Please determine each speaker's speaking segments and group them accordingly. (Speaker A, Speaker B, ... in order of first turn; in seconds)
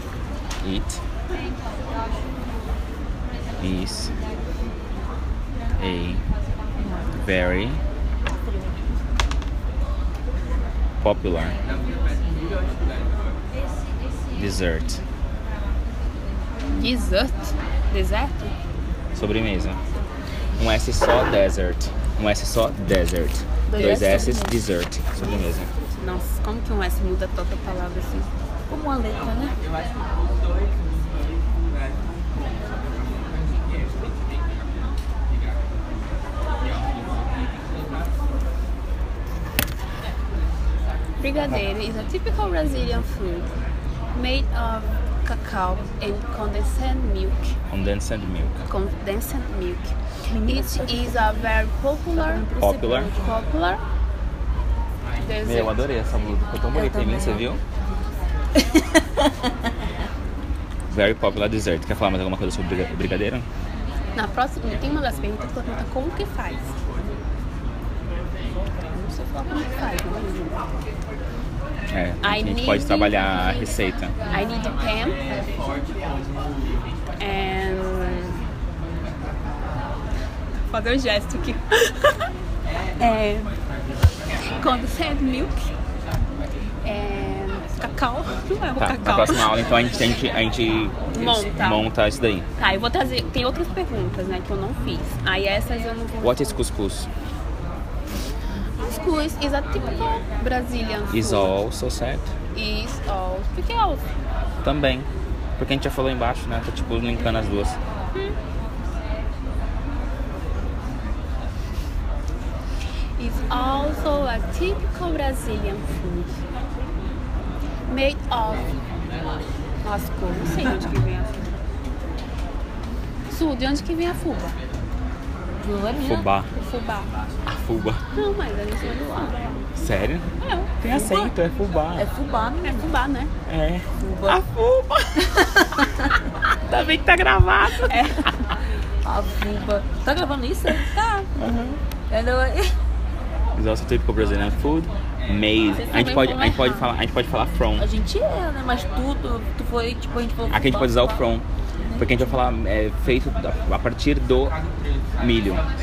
Speaker A: 0.6-1.0, 3.6-4.1, 5.8-6.2, 7.1-7.8, 11.0-11.6, 14.3-15.0, 19.1-19.8, 20.6-25.7, 47.7-48.6, 52.6-53.1, 55.4-57.6, 60.9-63.5, 71.9-74.2, 88.8-92.5, 96.2-97.1, 101.1-102.3, 104.6-107.8, 126.0-126.5, 127.5-128.0, 129.7-130.3, 130.8-132.1, 133.5-135.3, 136.7-138.1, 141.3-141.8, 143.6-147.8, 150.5-151.4, 152.0-154.6, 155.2-155.6
Speaker B: 6.8-7.1, 28.7-29.5, 50.3-51.3, 52.2-53.4, 56.7-57.6, 125.6-126.3, 130.9-131.3, 131.9-132.9, 134.0-134.4, 135.4-135.9, 139.0-141.3, 142.1-142.7, 147.8-151.2
Speaker C: 16.7-18.5, 23.7-24.6, 25.9-28.3, 41.2-43.5, 44.1-47.5, 48.7-49.9, 50.4-52.5, 53.1-53.8, 55.2-55.8, 64.2-66.7, 68.9-70.6, 72.2-73.7, 74.3-75.2, 77.2-78.4, 80.7-82.2, 83.0-83.5, 84.4-85.7, 86.8-89.5, 91.1-91.9, 92.6-96.6, 98.8-101.5, 102.5-104.1, 113.2-116.4, 117.9-118.7, 119.8-121.5, 123.3-124.6, 126.5-127.1, 128.1-129.5, 130.4-130.7, 132.6-133.3, 137.7-138.3, 145.8-146.9